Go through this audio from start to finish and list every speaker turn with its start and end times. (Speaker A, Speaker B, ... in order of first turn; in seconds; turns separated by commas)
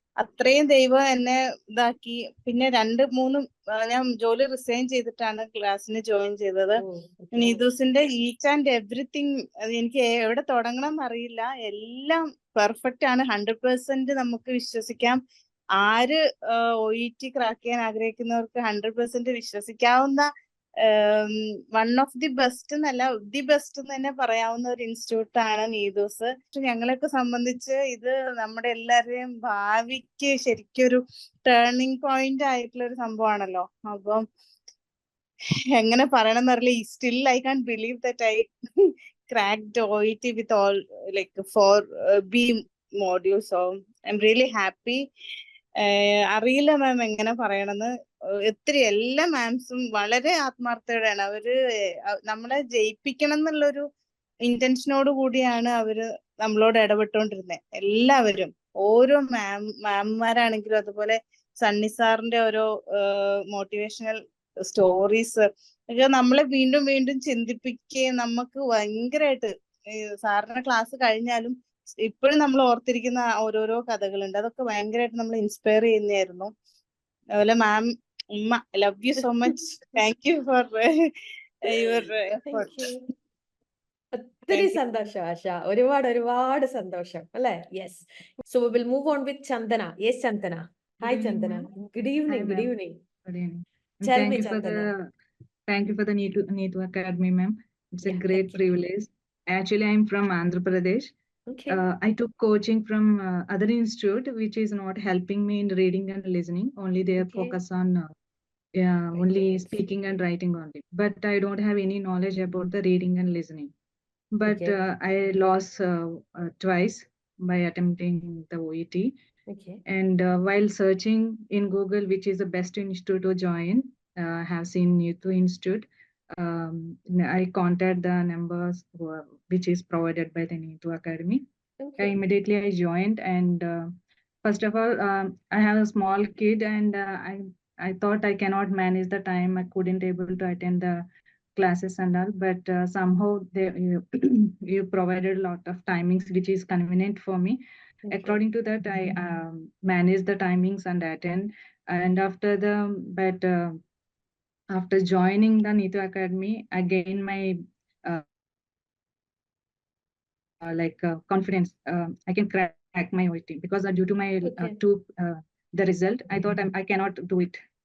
Speaker A: 0.2-6.8, Speaker B: 6.8-7.7, Speaker A: 7.4-15.2, Speaker A: 15.8-20.3, Speaker A: 20.9-34.2, Speaker A: 35.8-45.0, Speaker A: 45.8-47.9, Speaker A: 48.5-51.5, Speaker A: 52.3-53.9, Speaker A: 54.5-69.5, Speaker A: 70.2-71.5, Speaker A: 72.1-76.5, Speaker A: 77.4-80.8, Speaker A: 81.7-82.9, Speaker B: 82.5-83.0, Speaker B: 84.2-93.0, Speaker C: 91.0-91.6, Speaker C: 92.3-92.7, Speaker C: 93.2-94.9, Speaker B: 94.1-94.9, Speaker C: 95.7-101.1, Speaker B: 98.1-98.6, Speaker B: 101.5-101.8, Speaker C: 101.7-108.1, Speaker B: 107.2-107.6, Speaker C: 108.8-113.7, Speaker B: 109.2-109.8, Speaker C: 114.4-119.1, Speaker B: 114.5-114.8, Speaker B: 119.5-119.8, Speaker C: 119.9-131.4, Speaker B: 131.8-132.2, Speaker C: 132.0-133.9, Speaker C: 134.4-141.0, Speaker C: 141.6-147.6, Speaker B: 148.1-149.2, Speaker C: 148.1-153.8, Speaker C: 154.7-158.2, Speaker C: 160.7-167.6, Speaker B: 164.4-164.8